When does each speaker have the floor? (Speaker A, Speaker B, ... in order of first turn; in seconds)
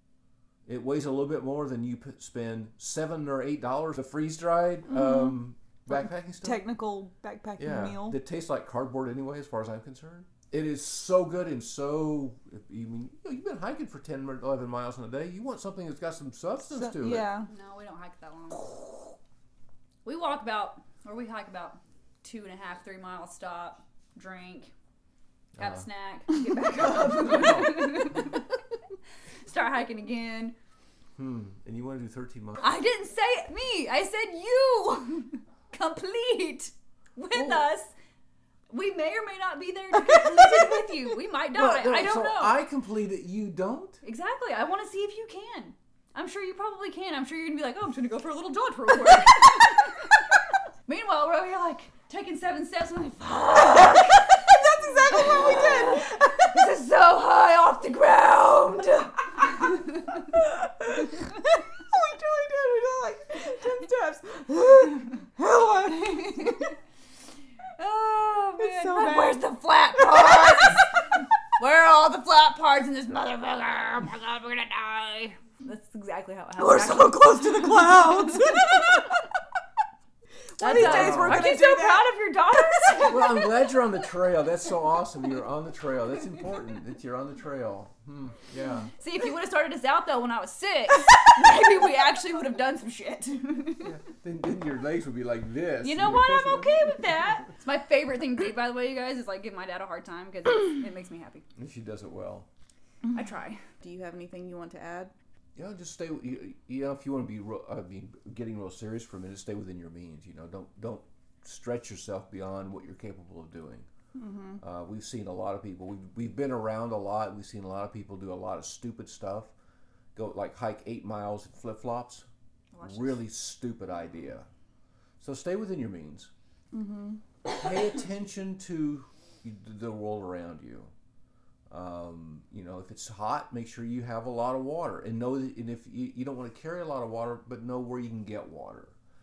Speaker A: 0.7-6.7, 7.6-17.3, 27.2-27.8, 31.1-32.6, 37.3-37.6, 41.5-44.0, 80.7-81.6, 83.0-88.9, 93.8-97.2, 101.5-102.5, 105.5-113.9, 114.6-119.5, 120.1-122.3, 122.8-124.5, 125.2-126.3, 127.5-130.9, 131.7-138.9
Speaker B: 4.9-5.4, 5.9-8.2, 16.7-17.5, 54.3-56.1, 60.8-66.6, 68.6-69.4, 76.6-79.1, 80.5-82.4, 103.7-105.1, 114.2-114.6, 126.7-127.2
Speaker C: 17.5-19.1, 20.0-24.7, 25.6-28.6, 29.4-30.5, 32.6-37.9, 38.7-42.6, 44.0-50.2, 50.9-54.5, 55.0-59.9, 65.8-66.7, 67.8-71.1, 71.6-77.6, 78.5-78.8, 80.6-83.5, 89.0-94.0, 95.8-101.5, 103.1-103.7, 122.7-123.2